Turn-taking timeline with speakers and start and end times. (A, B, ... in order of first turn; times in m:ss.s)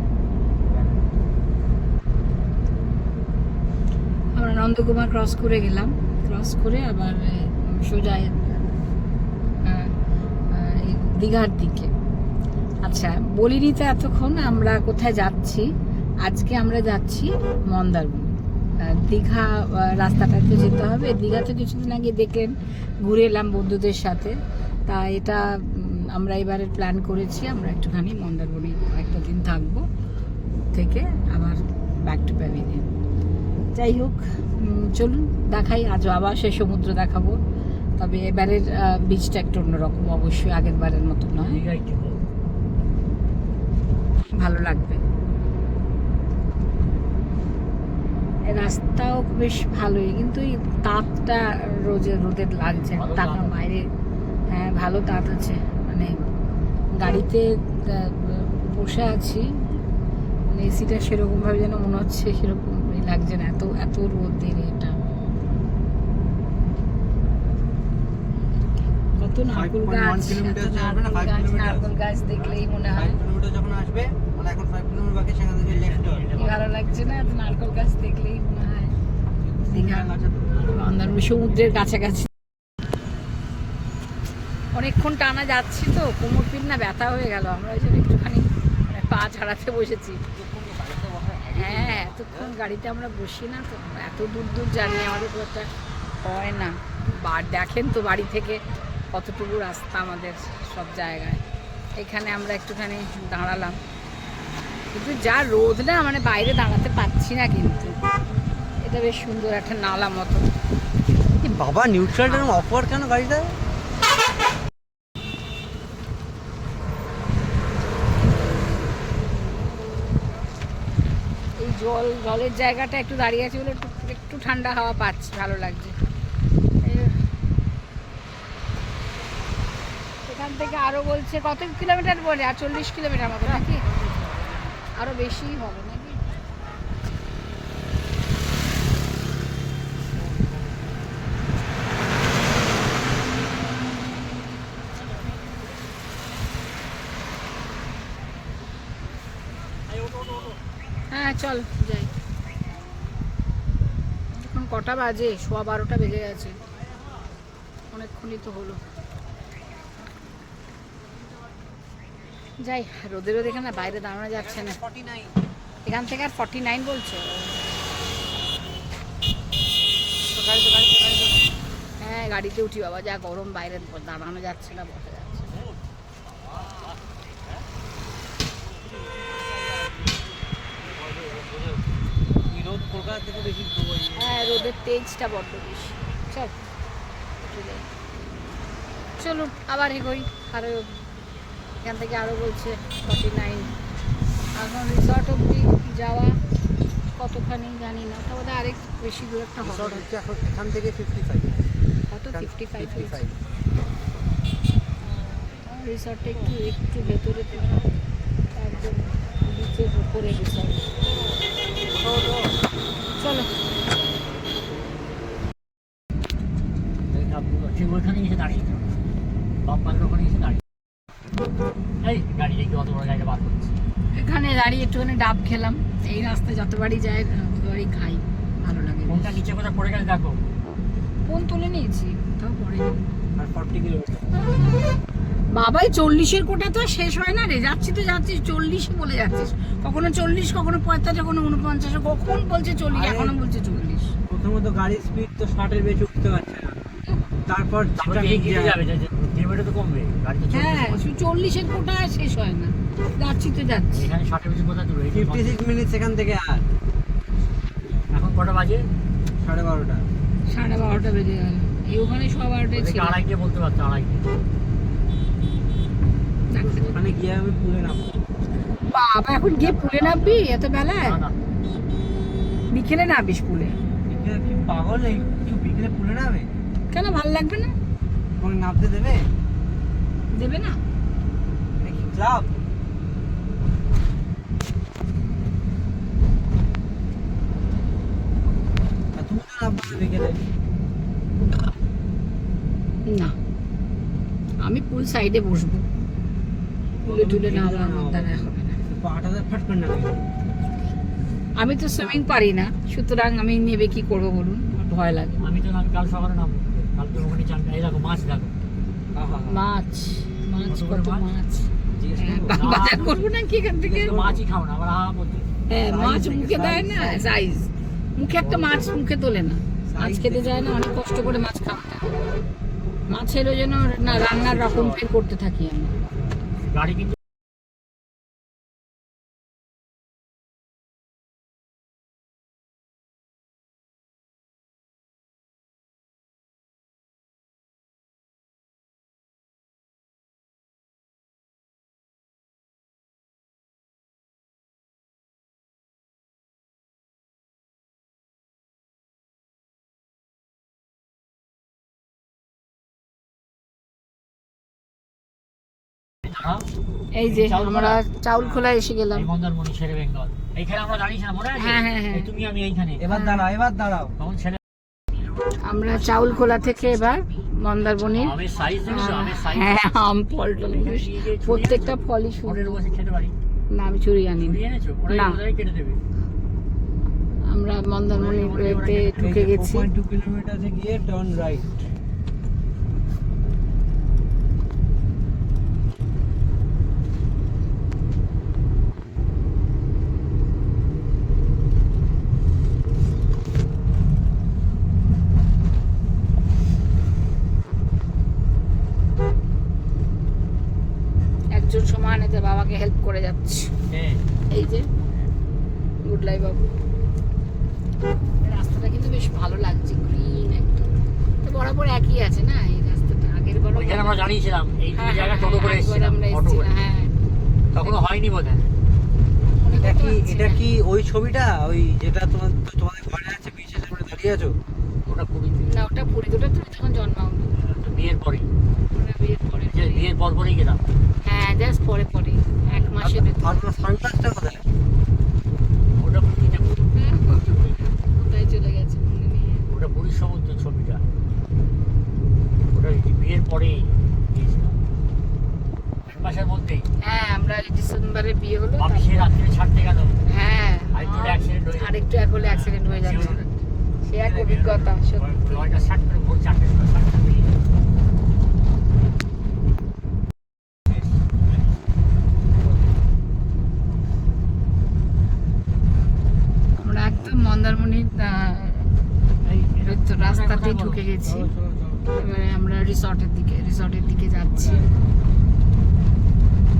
0:00.6-0:01.1 A
0:04.4-0:08.7 B
0:09.6-0:10.0 B
0:10.5-0:11.9 B
0:12.8-0:15.7 B
0:16.2-0:29.8 B
0:30.7-0:32.9 B
0:33.8-0:37.4 B
0:38.0-0:41.6 B
0:41.4-0:42.2 A
0:44.3-0:45.0 B
0:48.4-0:53.9 B
0:52.9-0:53.6 A
0:54.5-0:56.1 B
0:57.0-0:59.5 B
1:00.5-1:05.0 B
1:09.0-1:13.2 B
1:09.5-1:11.9 C
1:12.3-1:12.6 A
1:12.9-1:16.3 C
1:15.7-1:17.9 A
1:16.4-1:18.9 B
1:19.4-1:20.6 C
1:19.7-1:20.1 B
1:20.5-1:20.8 A
1:20.7-1:22.3 B
1:24.8-1:30.2 B
1:30.3-1:32.6 C
1:31.5-1:35.7 B
1:36.2-1:38.6 B
1:39.1-1:41.4 B
1:42.0-1:43.8 B
1:44.9-1:48.0 B
1:48.8-1:50.5 B
1:51.4-1:53.6 C
1:52.3-1:52.6 B
2:01.6-2:06.0 B
2:06.8-2:07.2 B
2:10.2-2:13.9 B
2:13.4-2:14.8 C
2:15.0-2:16.2 B
2:29.9-2:30.6 A
2:31.1-2:32.1 B
2:34.3-2:36.6 B
2:37.9-2:38.8 B
2:42.6-2:44.8 B
2:44.4-2:45.4 C
2:45.8-2:47.7 B
2:50.3-2:51.4 C
2:52.0-2:55.6 B
2:59.0-3:00.1 C
3:01.2-3:01.8 C
3:02.5-3:04.6 C
3:04.2-3:06.6 B
3:07.4-3:07.9 B
3:09.2-3:11.0 B
3:11.8-3:13.8 B
3:14.6-3:16.4 B
3:17.1-3:20.1 B
3:19.6-3:21.6 C
3:22.1-3:23.2 B
3:22.3-3:23.4 C
3:25.0-3:27.9 B
3:28.5-3:30.9 B
3:31.9-3:32.5 C
3:33.2-3:33.5 B
3:37.1-3:39.0 A
3:39.6-3:40.6 A
3:42.0-3:43.7 A
3:44.1-3:49.4 B
3:49.1-3:50.4 A
3:51.3-3:53.0 B
3:53.4-3:54.4 C
3:55.5-4:04.1 B
4:02.9-4:03.4 C
4:04.3-4:06.8 C
4:07.5-4:08.8 C
4:08.0-4:11.1 A
4:10.5-4:14.1 B
4:13.9-4:15.6 A
4:15.1-4:16.6 C
4:18.1-4:18.9 A
4:19.4-4:20.1 C
4:20.5-4:23.2 B
4:22.7-4:24.3 A
4:26.5-4:27.0 B
4:26.8-4:28.1 C
4:28.9-4:31.2 B
4:29.6-4:31.4 A
4:32.7-4:33.8 B
4:34.1-4:36.5 C
4:36.9-4:37.8 B
4:38.4-4:39.3 C
4:40.3-4:40.8 B
4:41.8-4:42.5 C
4:49.2-4:50.4 C
4:53.1-4:53.4 B
4:54.6-4:55.8 B
4:57.0-4:58.8 B
4:57.0-5:00.3 C
5:01.6-5:05.4 B
5:05.4-5:08.5 A
5:09.2-5:09.6 C
5:09.5-5:14.2 B
5:10.7-5:11.3 A
5:12.0-5:12.7 C
5:12.5-5:13.3 A
5:13.8-5:14.4 C
5:14.0-5:15.5 A
5:15.7-5:22.0 B
5:15.8-5:17.3 C
5:18.4-5:18.9 A
5:19.9-5:20.8 C
5:23.1-5:25.9 B
5:24.0-5:25.0 C
5:26.7-5:27.2 A
5:56.3-5:56.7 A
5:57.2-5:59.3 B
5:57.3-6:03.1 A
6:01.6-6:02.3 B
6:03.0-6:04.2 C
6:03.1-6:03.4 B
6:04.2-6:04.6 A
6:05.6-6:12.8 B
6:08.1-6:13.4 A
6:13.7-6:15.4 B
6:14.4-6:16.0 A
6:17.5-6:19.9 B
6:18.1-6:19.3 A
6:19.2-6:21.8 C
6:41.5-6:43.7 B
6:43.9-6:44.2 A
6:44.5-6:44.9 B
6:46.0-6:46.6 B
6:48.4-6:50.9 B
6:51.4-6:54.2 B
6:53.8-6:56.8 A
6:54.9-6:57.1 B
6:57.7-6:58.7 A
6:57.8-6:58.1 B
6:59.6-7:00.6 B
6:59.8-7:04.6 C
7:05.1-7:05.8 A
7:05.7-7:07.5 B
7:07.6-7:08.5 A
7:08.9-7:10.1 B
7:09.7-7:10.8 A
7:11.2-7:13.6 B
7:13.0-7:14.7 C
7:16.0-7:17.0 A
7:17.0-7:19.7 B
7:19.7-7:21.1 A
7:22.7-7:24.8 A
7:26.1-7:26.9 A
7:27.0-7:29.3 B
7:28.8-7:30.2 A
7:30.3-7:33.4 B
7:30.9-7:33.5 A
7:34.1-7:35.9 B
7:34.3-7:37.6 A
7:46.8-7:48.9 B
7:49.4-7:51.0 A
7:49.8-7:51.5 B
7:51.2-7:52.2 C
7:52.2-7:54.8 B
7:54.5-7:54.9 C